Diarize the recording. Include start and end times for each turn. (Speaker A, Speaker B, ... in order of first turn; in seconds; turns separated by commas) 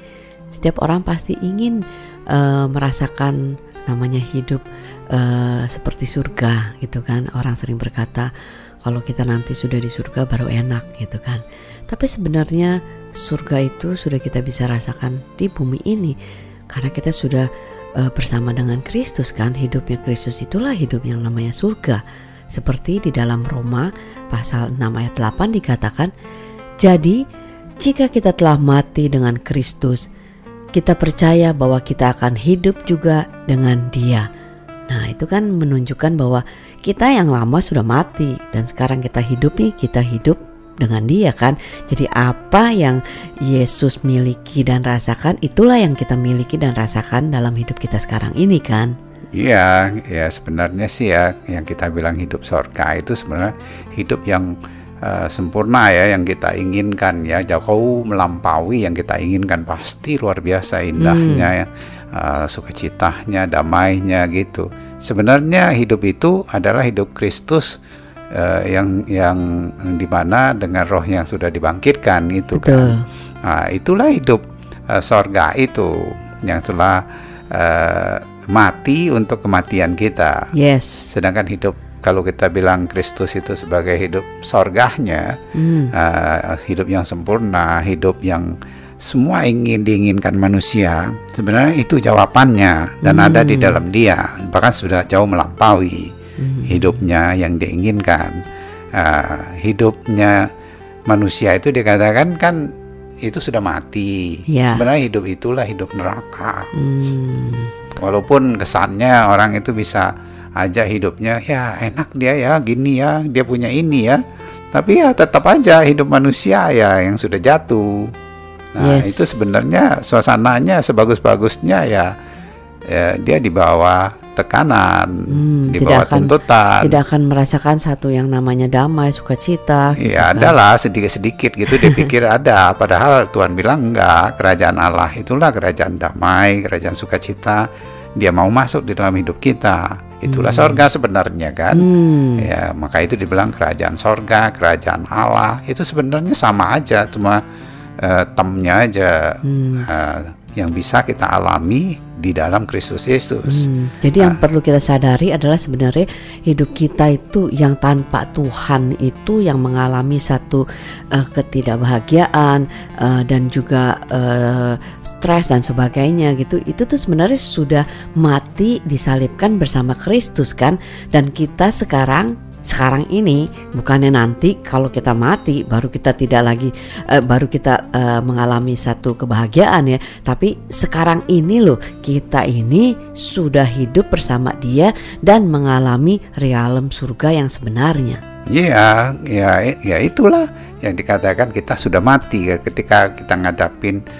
Speaker A: 0.5-8.3, Speaker A: 8.8-16.1, Speaker A: 16.7-26.1, Speaker A: 26.8-27.2, Speaker A: 27.8-30.1, Speaker A: 30.8-34.3, Speaker A: 34.9-49.0, Speaker B: 49.4-67.8, Speaker A: 61.0-61.5, Speaker B: 68.3-75.9, Speaker A: 72.5-73.1, Speaker B: 76.4-77.0, Speaker B: 77.5-80.5, Speaker A: 80.5-81.1, Speaker B: 81.1-85.3, Speaker A: 85.5-85.9, Speaker B: 85.9-88.5, Speaker B: 89.0-96.1, Speaker A: 93.0-93.8, Speaker A: 96.4-97.0, Speaker B: 96.7-98.3, Speaker B: 99.0-100.4, Speaker B: 101.1-102.6, Speaker B: 103.2-106.7, Speaker A: 104.5-104.8, Speaker A: 106.7-107.7, Speaker B: 108.0-114.2, Speaker B: 114.7-118.1, Speaker B: 118.8-122.1, Speaker A: 118.8-119.4, Speaker B: 122.9-127.0, Speaker A: 125.3-130.6, Speaker B: 130.0-137.6, Speaker A: 131.7-132.1, Speaker B: 138.2-147.4, Speaker A: 140.3-140.8, Speaker A: 141.7-142.5, Speaker B: 148.0-153.7, Speaker A: 149.4-149.9, Speaker A: 153.5-188.2, Speaker B: 188.5-194.0